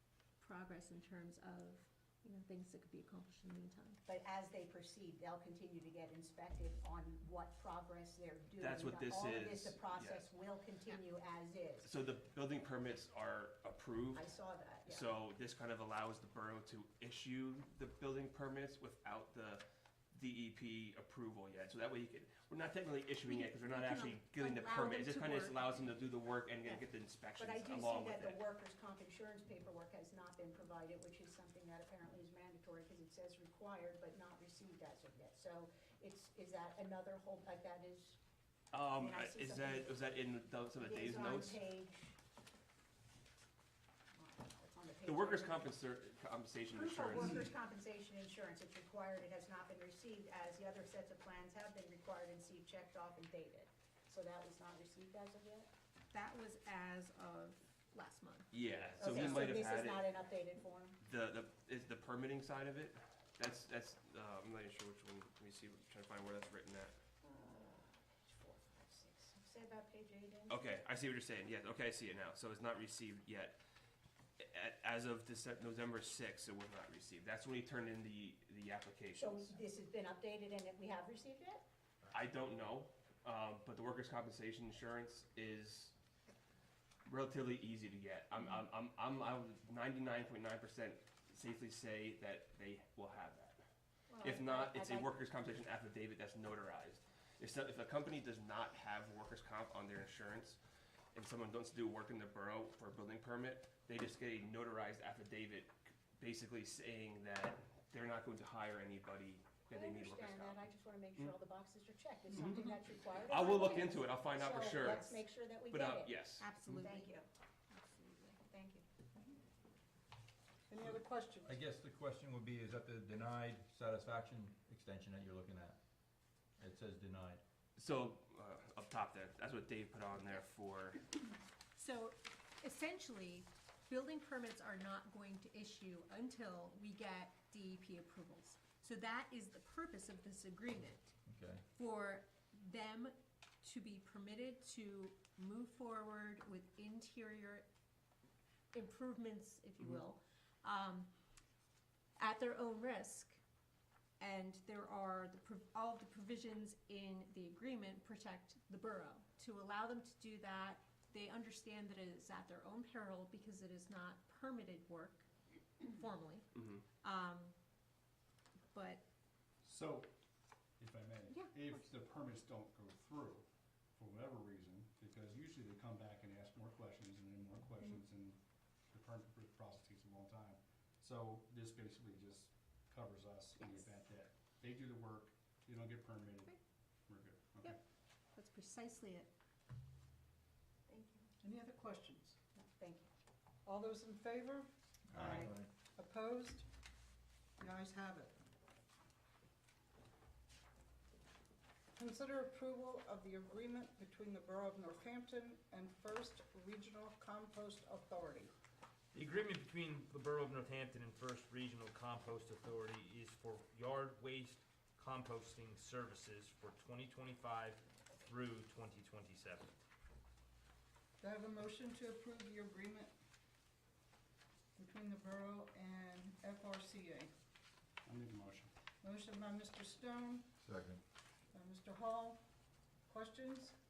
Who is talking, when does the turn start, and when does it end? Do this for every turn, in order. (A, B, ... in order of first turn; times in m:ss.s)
0:00.4-0:04.0 A
0:04.0-0:11.9 B
0:08.6-0:10.3 C
0:11.8-0:14.3 C
0:14.1-0:15.1 B
0:14.9-0:28.4 C
0:23.2-0:25.9 A
0:27.4-0:38.2 B
0:38.7-0:41.6 C
0:39.0-0:40.0 B
0:40.8-0:42.2 B
0:44.1-0:45.8 B
0:45.0-0:47.4 C
0:46.7-0:55.7 B
0:56.1-0:59.3 A
0:58.5-1:00.1 C
0:59.0-1:01.0 B
1:01.0-1:06.9 C
1:07.2-1:10.7 B
1:10.5-1:13.6 C
1:14.4-1:19.6 C
1:19.1-1:21.6 B
1:22.1-1:25.9 C
1:27.0-1:33.6 C
1:34.1-1:35.2 B
1:34.2-1:40.6 C
1:41.1-1:51.3 C
1:49.7-1:57.2 B
1:52.3-1:56.5 C
1:56.4-1:57.2 A
1:57.7-1:58.4 A
1:58.5-1:58.8 B
2:00.7-2:01.6 D
2:01.4-2:05.8 E
2:06.6-2:07.4 E
2:07.8-2:11.0 C
2:11.8-2:21.1 A
2:21.3-2:21.6 E
2:21.7-2:27.7 A
2:28.7-2:31.1 A
2:32.2-2:33.4 A
2:34.2-2:45.3 A
2:45.8-2:46.5 A
2:46.5-2:46.8 C
2:47.0-2:47.5 A
2:48.7-2:49.0 A
2:49.6-2:50.1 F
2:50.8-2:53.4 F
2:51.3-2:51.9 A
2:54.0-2:58.4 F
2:58.9-3:06.5 F
3:03.6-3:03.8 A
3:07.1-3:07.8 F
3:08.3-3:09.3 A
3:10.9-3:11.2 A
3:11.4-3:12.4 D
3:12.6-3:13.1 B
3:13.6-3:16.6 D
3:15.1-3:15.7 E
3:17.6-3:18.3 D
3:22.0-3:28.5 D
3:29.1-3:39.7 G
3:41.2-3:43.1 D
3:44.8-3:47.3 D
3:48.0-3:48.7 F
3:49.0-3:50.5 D
3:50.6-3:51.0 E
3:51.5-3:52.4 D
3:53.1-3:53.7 D